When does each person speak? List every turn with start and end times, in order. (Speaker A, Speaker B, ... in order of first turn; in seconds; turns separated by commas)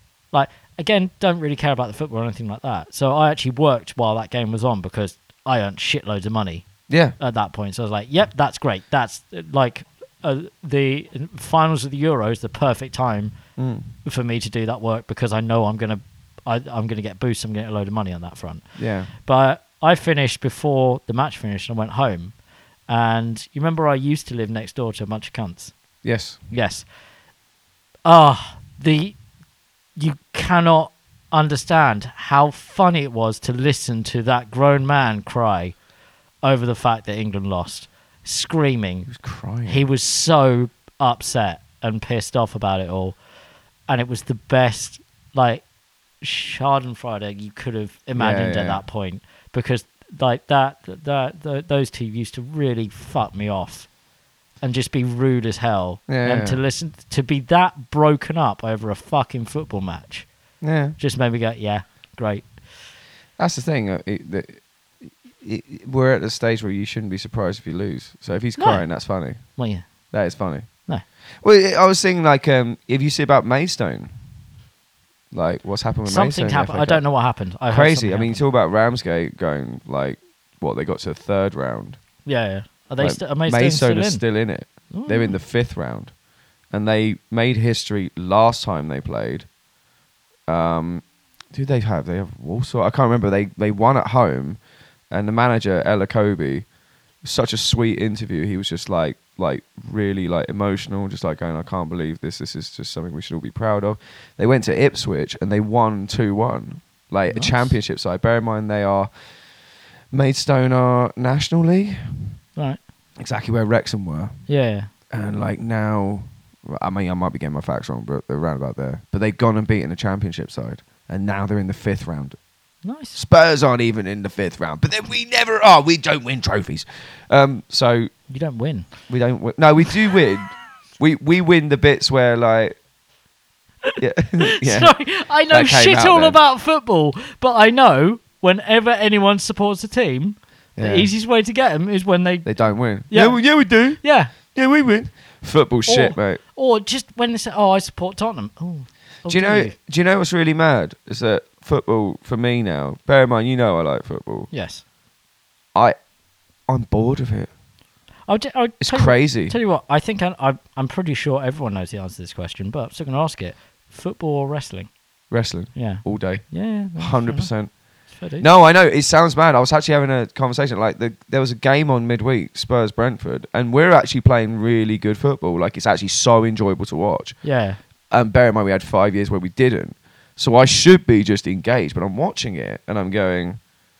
Speaker A: 0.3-13.4, Speaker B: 6.9-7.2, Speaker B: 13.6-13.9, Speaker A: 14.0-22.3, Speaker B: 18.8-19.1, Speaker A: 22.9-25.8, Speaker B: 26.0-26.4, Speaker A: 26.5-26.9, Speaker A: 28.0-29.2, Speaker A: 29.9-35.8, Speaker A: 36.4-39.1, Speaker B: 39.1-39.8, Speaker A: 39.6-43.2, Speaker A: 43.9-45.6, Speaker A: 46.2-53.9, Speaker B: 48.1-48.8, Speaker A: 54.6-60.3, Speaker B: 56.1-56.6, Speaker B: 60.6-61.0, Speaker A: 61.0-62.6, Speaker B: 63.4-69.5, Speaker A: 68.6-68.9, Speaker A: 69.5-69.9, Speaker B: 70.1-70.7, Speaker B: 71.4-74.1, Speaker B: 75.3-77.0, Speaker A: 76.0-78.4, Speaker B: 77.7-82.0, Speaker A: 82.2-84.2, Speaker B: 83.0-86.1, Speaker A: 84.9-85.3, Speaker B: 86.7-89.5, Speaker B: 90.5-94.6, Speaker B: 95.1-96.7, Speaker B: 97.2-109.1, Speaker A: 107.3-107.7, Speaker B: 110.1-112.3, Speaker A: 112.5-112.8, Speaker B: 113.2-114.5, Speaker A: 114.5-114.9, Speaker B: 115.1-122.4, Speaker A: 122.8-123.2, Speaker B: 123.1-128.1, Speaker A: 128.3-128.9, Speaker B: 129.1-132.8, Speaker B: 134.0-136.4, Speaker A: 134.6-143.4, Speaker B: 140.8-141.1, Speaker B: 142.4-146.4, Speaker A: 144.0-144.3, Speaker A: 145.8-149.7, Speaker B: 149.2-154.5, Speaker A: 154.5-154.8, Speaker B: 156.7-157.5, Speaker A: 158.3-164.9, Speaker B: 158.8-159.6, Speaker B: 165.3-167.7, Speaker A: 165.7-167.5, Speaker A: 168.1-168.4, Speaker B: 168.4-177.4, Speaker A: 177.4-177.8, Speaker B: 178.1-183.6